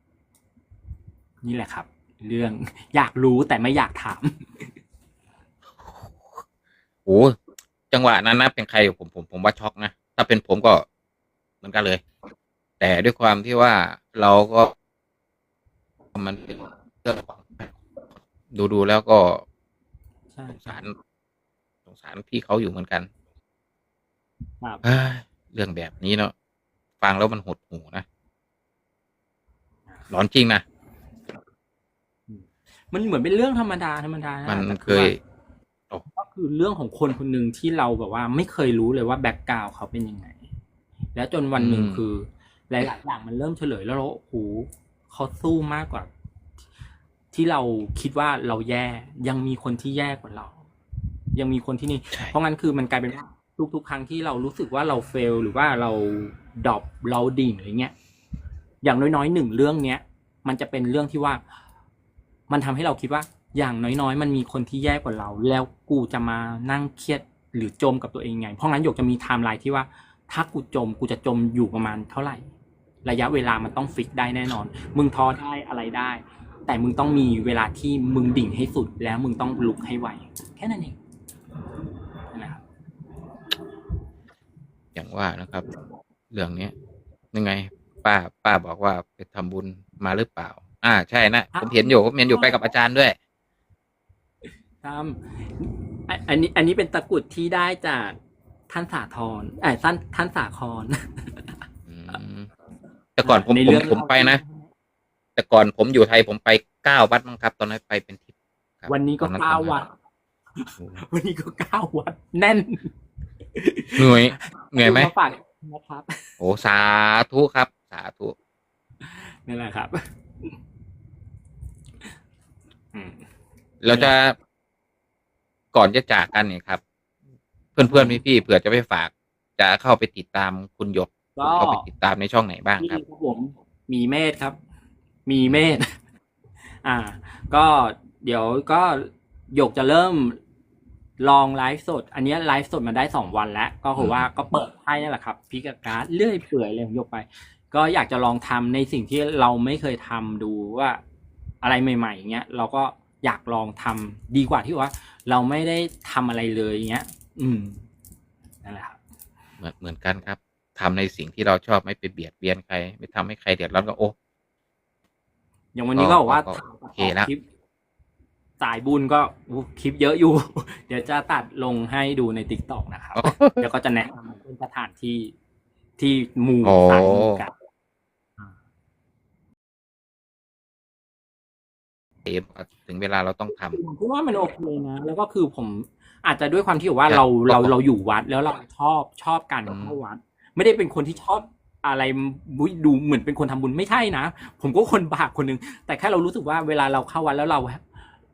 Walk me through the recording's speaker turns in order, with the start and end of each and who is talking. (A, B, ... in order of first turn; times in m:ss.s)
0:01.4-0:04.7 A
0:05.8-0:06.4 B
0:07.0-0:07.4 B
0:07.9-0:10.8 B
0:11.6-0:12.0 B
0:12.8-0:14.7 B
0:16.1-0:17.8 B
0:18.5-0:19.4 B
0:20.3-0:20.8 A
0:20.5-0:20.9 B
0:21.8-0:23.1 B
0:24.8-0:26.3 B
0:27.0-0:28.0 B
0:30.1-0:30.6 B
0:32.3-0:35.1 A
0:34.4-0:35.2 B
0:36.1-0:40.4 A
0:41.1-0:46.1 A
0:41.6-0:42.0 B
0:47.3-0:50.6 A
0:51.3-0:57.9 A
0:58.8-1:01.4 A
1:02.5-1:12.4 A
1:13.0-1:21.0 A
1:22.3-1:22.6 A
1:24.9-1:25.6 B
1:26.3-1:26.7 B
1:27.3-1:33.2 B
1:31.5-1:32.7 A
1:34.8-1:38.2 A
1:38.7-1:41.5 A
1:41.9-1:42.5 B
1:43.2-1:44.4 B
1:43.2-1:44.7 A
1:45.4-1:49.8 B
1:48.9-1:49.9 A
1:50.6-1:52.9 A
1:53.6-1:56.3 A
1:54.0-1:55.1 B
1:56.4-1:58.3 B
1:59.0-2:00.5 A
2:02.9-2:03.2 A
2:03.8-2:04.3 B
2:05.7-2:06.8 B
2:07.8-2:13.0 B
2:07.8-2:08.2 A
2:11.4-2:11.8 A
2:12.8-2:14.6 A
2:15.3-2:15.9 A
2:16.8-2:20.4 A
2:21.2-2:31.0 A
2:24.0-2:24.2 B
2:31.6-2:37.8 A
2:38.6-2:39.0 A
2:39.6-2:44.1 B
2:45.7-2:47.4 A
2:46.0-2:47.3 B
2:48.6-2:55.3 A
2:53.2-2:53.6 B
2:56.0-2:57.5 A
2:56.6-2:57.4 B
3:02.2-3:03.8 B
3:03.7-3:17.8 A
3:07.1-3:07.7 B
3:09.7-3:09.9 B